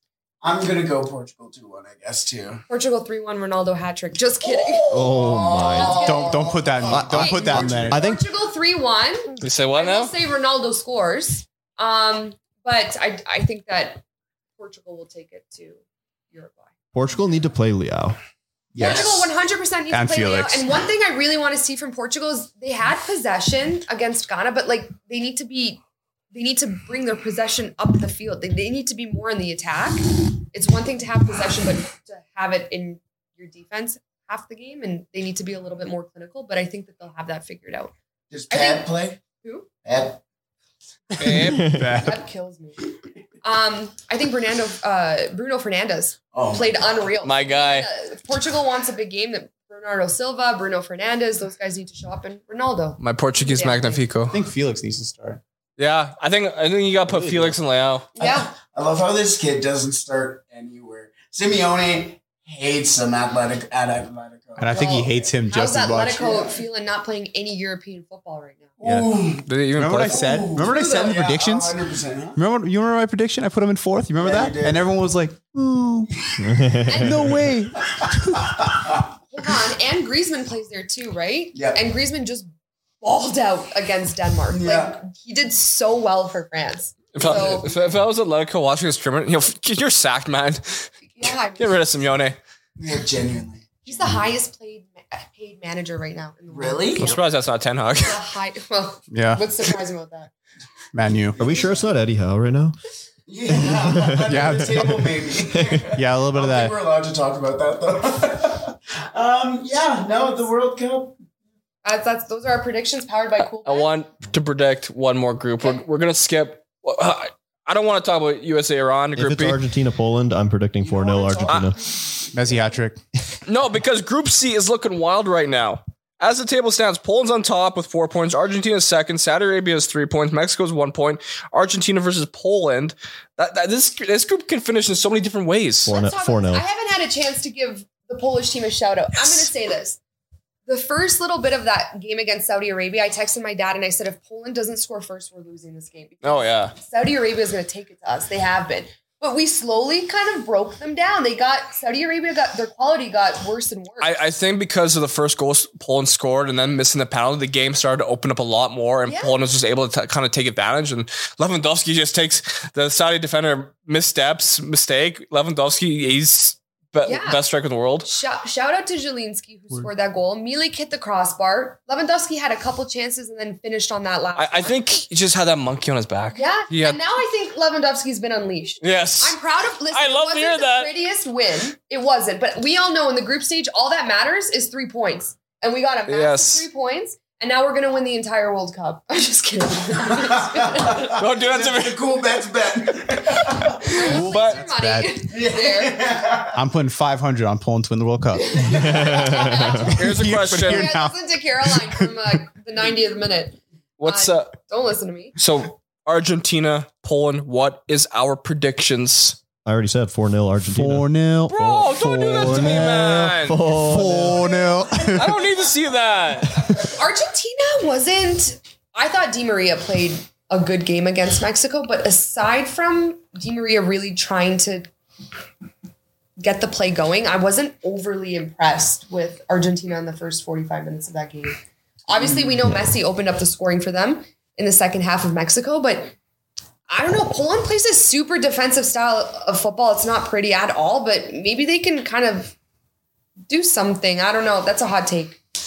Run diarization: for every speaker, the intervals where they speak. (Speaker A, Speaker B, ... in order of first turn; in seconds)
Speaker A: 0.4-2.6, 4.4-8.0, 18.8-19.1, 38.3-39.2, 39.8-40.2, 46.3-46.9, 58.2-65.3, 66.1-66.6, 68.8-69.5, 70.0-72.4, 74.2-74.9, 78.4-79.0, 81.5-81.8, 84.5-85.0, 92.8-94.2, 96.5-97.2, 101.3-101.8, 103.3-111.2, 120.8-122.8, 190.0-194.1, 195.3-196.6, 198.5-199.4
Speaker B: 2.7-4.9, 5.6-6.5, 7.1-14.0, 14.6-16.7, 18.8-25.8, 26.3-37.9, 38.5-39.7, 41.9-42.8, 43.4-54.0, 58.1-58.5, 64.7-68.7, 76.9-77.2, 79.3-82.5, 83.0-87.7, 91.1-91.8, 93.8-97.2, 98.0-100.3, 111.8-113.9, 135.9-140.0, 140.7-154.2, 159.1-159.4, 167.1-167.4, 168.0-174.7, 176.3-191.2, 193.4-196.0, 198.3-199.9, 200.7-205.3, 216.9-224.9, 226.4-236.2, 236.9-242.6, 243.5-245.4
Speaker C: 4.9-6.1, 6.9-8.3, 16.9-18.2, 41.6-41.9, 76.4-77.3, 101.4-102.8, 104.0-104.3, 119.2-121.8, 135.9-136.7, 198.7-200.0, 209.7-211.1, 211.7-214.6
Speaker D: 5.9-8.0, 18.7-19.3, 19.9-20.7, 41.3-42.2, 54.3-55.4, 57.1-57.6, 64.6-66.2, 68.8-69.1, 69.7-71.8, 72.4-76.1, 76.9-78.5, 99.1-99.4, 100.9-101.4, 104.3-105.2, 105.9-106.8, 122.3-123.0, 193.9-195.2, 196.6-198.5, 200.0-202.1, 210.7-212.8, 213.7-215.3
Speaker E: 9.4-10.1, 41.2-41.7, 47.2-47.9, 53.0-54.4, 55.8-58.1, 69.5-70.2, 87.2-92.4, 97.0-98.2, 113.7-119.6, 123.5-135.9, 146.2-146.7, 154.0-168.1, 174.4-177.0, 178.8-179.4, 179.9-180.9, 186.1-186.7, 191.2-192.0, 194.2-194.6, 199.9-200.9, 204.0-204.5, 205.4-209.4, 211.5-213.7, 215.2-216.6